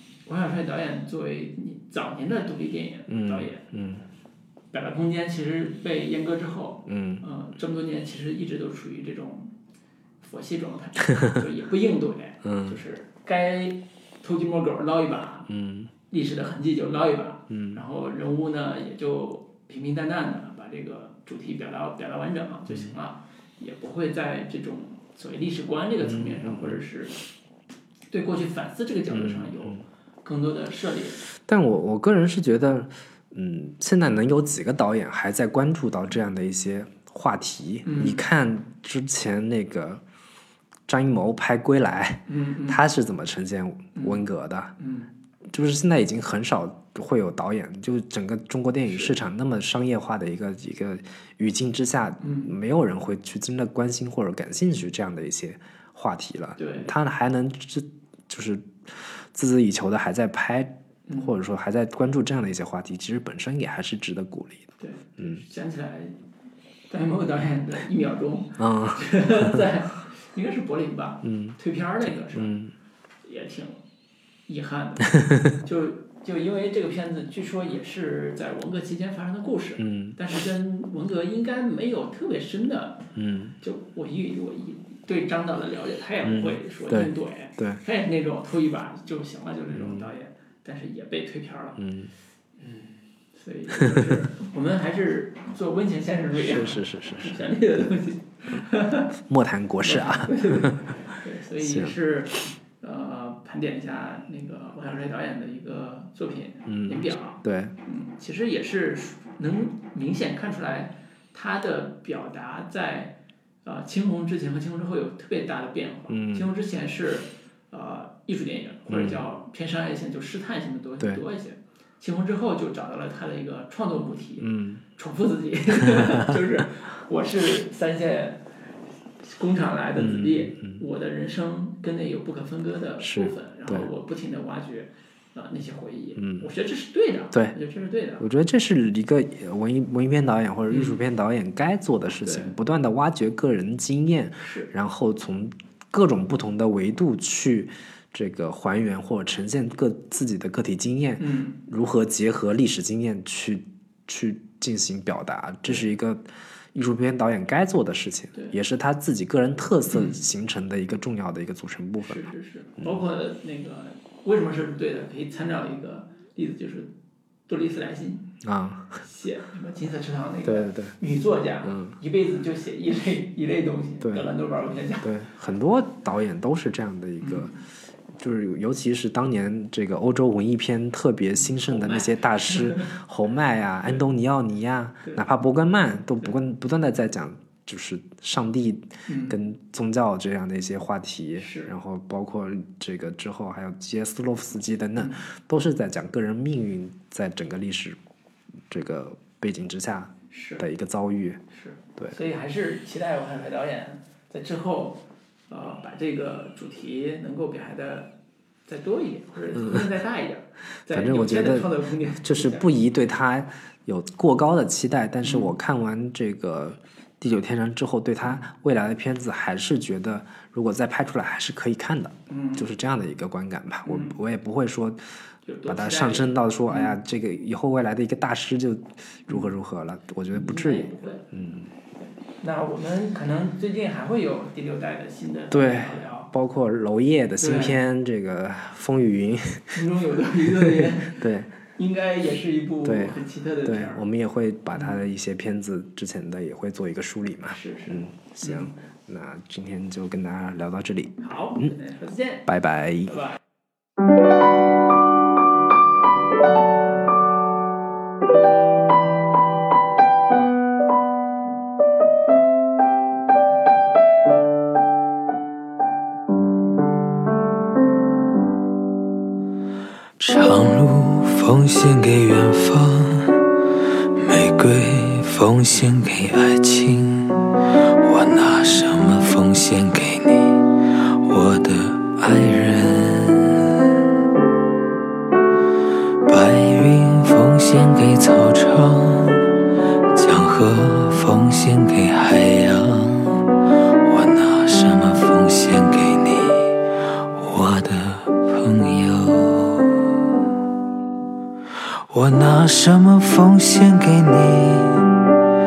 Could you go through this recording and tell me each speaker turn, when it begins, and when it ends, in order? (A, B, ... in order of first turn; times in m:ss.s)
0:00.2-0:03.6 A
0:03.1-0:04.0 B
0:04.7-0:09.5 A
0:06.8-0:07.2 B
0:10.2-0:15.5 A
0:12.4-0:12.8 B
0:15.5-0:15.9 B
0:16.1-0:27.2 A
0:17.5-0:17.8 B
0:22.7-0:22.9 B
0:26.0-0:26.8 B
0:28.1-0:31.2 A
0:29.1-0:29.8 B
0:31.4-0:40.0 B
0:37.8-0:38.2 A
0:40.9-0:44.7 B
0:42.3-0:42.8 A
0:44.0-0:44.2 A
0:44.8-0:45.1 A
0:45.5-1:05.4 B
0:48.9-0:49.2 A
0:52.2-0:52.5 A
0:56.6-0:56.9 A
1:01.1-1:01.3 A
1:04.8-1:06.2 A
1:06.9-1:12.6 A
1:08.6-1:09.7 B
1:11.2-1:11.6 B
1:12.3-1:12.7 B
1:13.2-1:13.8 A
1:14.5-1:23.1 A
1:15.1-1:15.5 B
1:19.8-1:20.2 B
1:23.2-1:23.6 B
1:23.6-1:31.8 A
1:26.2-1:27.8 B
1:29.7-1:30.1 B
1:31.8-1:32.1 B
1:32.6-1:39.1 A
1:33.8-1:34.2 B
1:36.3-1:37.9 B
1:39.2-1:41.0 B
1:39.8-2:08.4 A
1:41.6-1:42.0 B
1:46.6-1:47.7 B
1:56.1-1:56.5 B
1:58.9-1:59.2 B
2:04.4-2:04.8 B
2:05.8-2:06.6 B
2:09.2-2:18.2 A
2:10.0-2:10.8 B
2:13.0-2:13.9 B
2:16.2-2:16.5 B
2:18.2-2:42.2 B
2:20.7-2:21.0 A
2:22.2-2:22.6 A
2:24.4-2:24.7 A
2:31.2-2:31.6 A
2:39.9-2:40.2 A
2:42.0-2:46.9 A
2:42.8-2:43.0 B
2:47.5-2:48.2 A
2:48.4-2:49.0 B
2:49.0-2:55.1 A
2:50.4-2:50.9 B
2:51.6-2:52.0 B
2:54.0-2:54.3 B
2:55.0-2:57.5 B
2:57.2-2:57.6 A
2:58.2-3:18.0 B
3:01.4-3:02.9 A
3:09.1-3:09.4 A
3:11.4-3:11.7 A
3:18.7-3:21.4 B
3:20.3-3:20.6 A
3:21.5-3:28.1 A
3:28.7-3:32.7 A
3:29.5-3:29.9 B
3:30.9-3:45.0 B
3:35.2-3:35.6 A
3:38.2-3:38.5 A
3:42.3-3:42.7 A
3:43.8-3:44.2 A
3:45.4-3:47.0 A
3:45.7-3:51.7 B
3:49.3-3:49.5 A
3:50.3-3:51.3 A
3:52.0-3:56.3 A
3:55.5-3:59.8 B
3:57.4-3:57.8 A
3:59.7-4:04.0 A
4:00.4-4:01.5 B
4:02.8-4:11.7 B
4:04.7-4:05.0 A
4:07.5-4:08.7 A
4:11.2-4:12.5 A
4:12.4-4:13.2 B
4:13.1-4:13.4 A
4:30.2-4:33.4 C
4:34.2-4:37.5 C
4:38.0-4:43.9 C
4:46.2-4:49.5 C
4:50.1-4:53.4 C
4:54.0-4:56.7 C
4:57.3-5:00.1 C
5:02.1-5:05.1 C